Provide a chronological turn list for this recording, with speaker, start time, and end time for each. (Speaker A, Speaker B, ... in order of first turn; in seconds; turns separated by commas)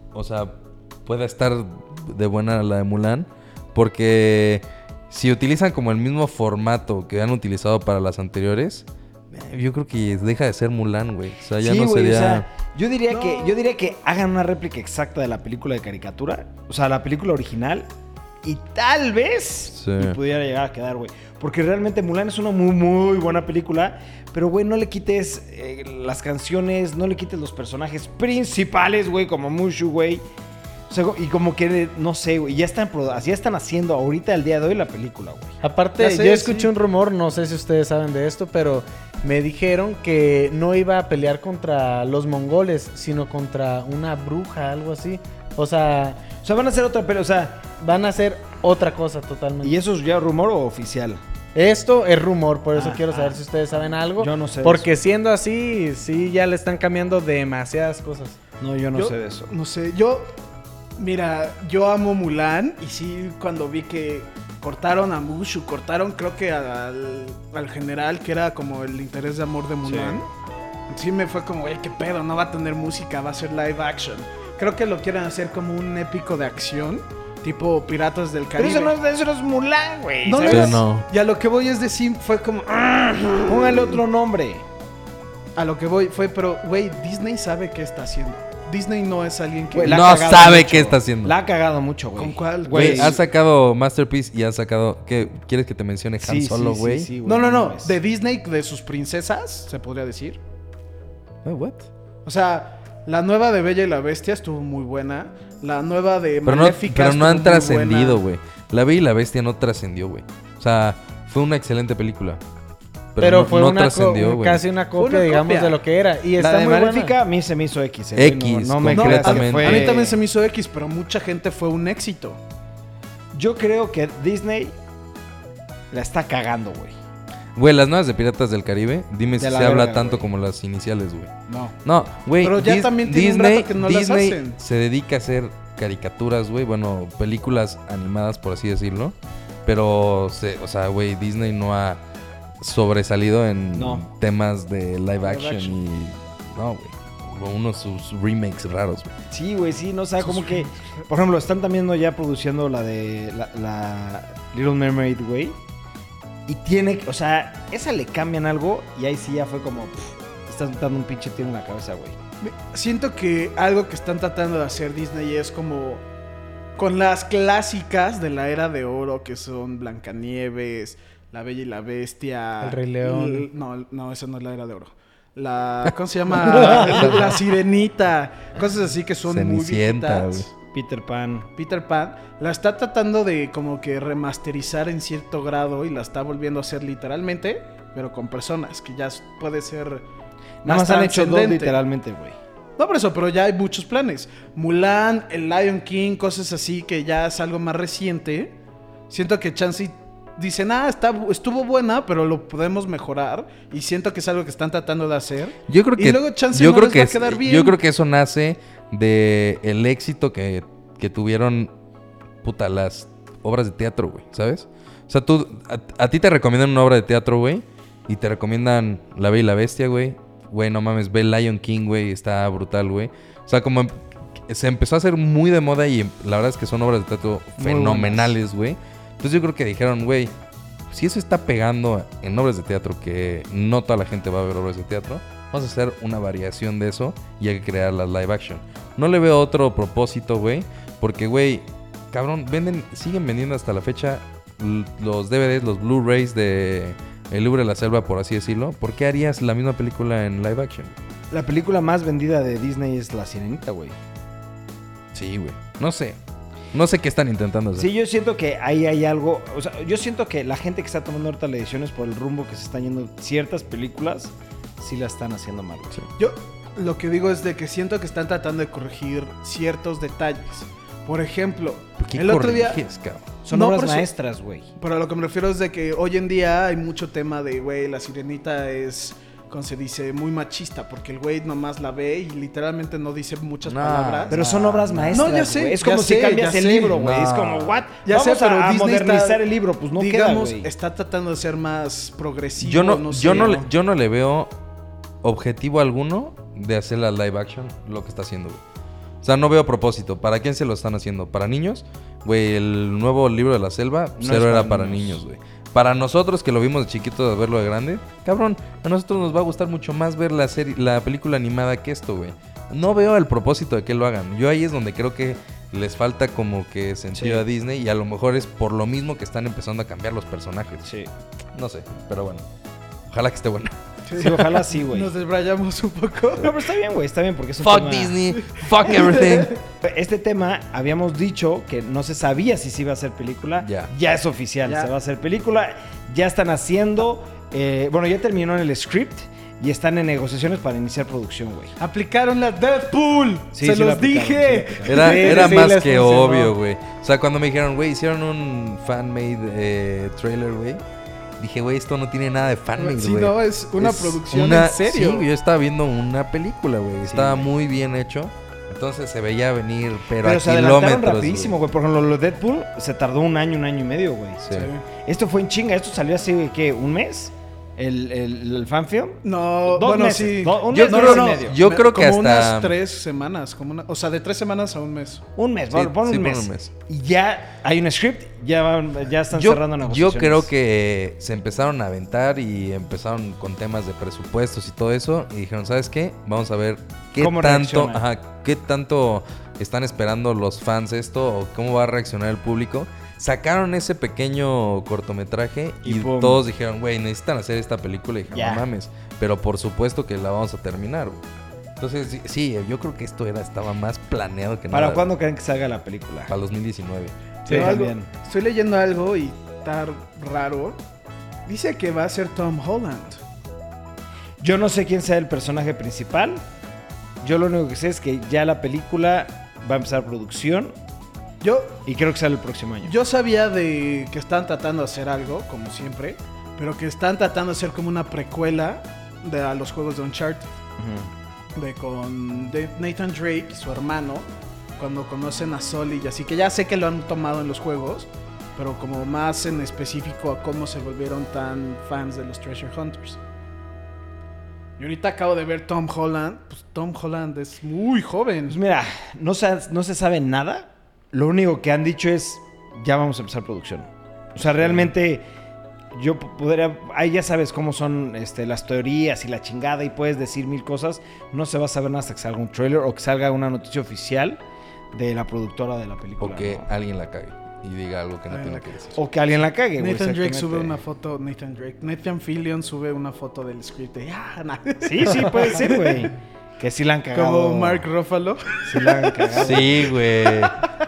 Speaker A: 0.1-12.5, Speaker B: 11.6-17.9, Speaker C: 13.1-13.6, Speaker B: 18.4-30.2, Speaker A: 19.7-20.2, Speaker B: 30.9-35.6, Speaker D: 35.6-46.2, Speaker C: 36.0-36.7, Speaker B: 46.4-47.6, Speaker D: 47.8-49.8, Speaker B: 49.6-51.2, Speaker D: 51.5-58.4, Speaker B: 52.7-53.4, Speaker B: 54.2-54.9, Speaker B: 58.6-59.5, Speaker C: 59.0-60.3, Speaker C: 61.0-70.3, Speaker B: 69.8-70.2, Speaker C: 70.9-79.0, Speaker B: 78.6-80.8, Speaker C: 80.2-84.0, Speaker A: 80.5-81.1, Speaker B: 83.5-84.6, Speaker C: 85.6-90.0, Speaker B: 89.7-93.2, Speaker A: 89.9-91.3, Speaker C: 92.2-93.2, Speaker A: 92.7-97.1, Speaker B: 96.2-98.0, Speaker C: 97.2-100.4, Speaker A: 101.4-101.9, Speaker C: 102.2-108.2, Speaker A: 106.5-112.4, Speaker A: 113.2-114.6, Speaker D: 113.2-117.2, Speaker C: 115.0-115.8, Speaker B: 116.4-120.2, Speaker A: 118.2-119.9, Speaker C: 118.9-122.4, Speaker B: 123.3-124.8, Speaker B: 125.9-127.0, Speaker A: 127.6-131.3, Speaker B: 129.4-130.3, Speaker C: 131.5-131.8, Speaker A: 131.8-142.0, Speaker C: 132.4-134.6, Speaker A: 142.6-149.1, Speaker B: 143.7-144.1, Speaker C: 145.2-145.8, Speaker B: 149.3-155.6, Speaker C: 150.3-150.7, Speaker B: 156.5-162.2, Speaker C: 162.4-166.0, Speaker C: 166.8-180.5, Speaker D: 172.6-173.5, Speaker D: 176.4-177.2, Speaker A: 176.5-177.3, Speaker A: 179.3-180.5, Speaker B: 180.7-181.5, Speaker C: 181.6-190.1, Speaker C: 190.6-191.8, Speaker B: 190.6-192.4, Speaker C: 192.8-198.6, Speaker C: 199.1-207.8, Speaker A: 205.7-211.7, Speaker A: 212.4-230.3, Speaker B: 227.6-228.3, Speaker A: 230.9-251.0, Speaker B: 251.3-254.0, Speaker A: 255.1-256.2, Speaker A: 256.7-257.9, Speaker B: 257.8-266.0, Speaker C: 266.2-272.8, Speaker A: 272.0-273.3, Speaker B: 273.4-274.7, Speaker C: 273.5-274.1, Speaker C: 274.8-287.0, Speaker A: 283.6-285.2, Speaker B: 284.3-290.7, Speaker A: 287.0-287.8, Speaker C: 288.1-289.4, Speaker C: 290.0-293.7, Speaker A: 292.6-294.5, Speaker A: 295.2-298.6, Speaker A: 299.2-320.9, Speaker B: 304.2-305.2, Speaker B: 317.1-317.4, Speaker B: 320.8-321.1, Speaker A: 321.5-322.4, Speaker A: 323.1-323.8, Speaker C: 324.1-326.6, Speaker B: 324.1-325.1, Speaker B: 326.4-328.2, Speaker A: 327.6-329.5, Speaker C: 328.4-329.6, Speaker B: 329.8-341.7, Speaker A: 333.6-333.9, Speaker C: 341.8-345.7, Speaker B: 343.5-345.3, Speaker A: 344.9-350.8, Speaker D: 345.0-346.5, Speaker A: 351.4-361.6, Speaker C: 352.8-355.3, Speaker B: 357.0-357.5, Speaker B: 360.2-364.5, Speaker A: 364.4-364.7, Speaker C: 364.5-364.8, Speaker B: 365.0-371.6, Speaker C: 369.2-375.2, Speaker A: 370.7-372.8, Speaker B: 375.4-380.5, Speaker A: 375.7-376.7, Speaker A: 379.3-401.2, Speaker B: 387.2-388.1, Speaker B: 395.8-396.4, Speaker B: 398.3-398.7, Speaker A: 401.8-405.1, Speaker B: 404.7-406.3, Speaker A: 406.3-407.1, Speaker B: 407.5-408.1, Speaker C: 407.5-410.8, Speaker C: 411.5-413.2, Speaker B: 414.4-416.4, Speaker B: 417.2-420.8, Speaker C: 421.4-421.8, Speaker B: 421.9-422.9, Speaker C: 422.9-430.5, Speaker B: 430.8-431.1, Speaker C: 431.6-434.3, Speaker C: 434.8-443.2, Speaker C: 444.8-448.6, Speaker B: 448.5-455.3, Speaker B: 455.9-464.4, Speaker B: 464.9-466.7, Speaker A: 466.2-469.0, Speaker C: 468.3-468.9, Speaker B: 468.9-470.8, Speaker C: 469.8-476.1, Speaker B: 474.8-477.9, Speaker C: 477.1-480.5, Speaker B: 478.6-479.9, Speaker A: 479.4-480.6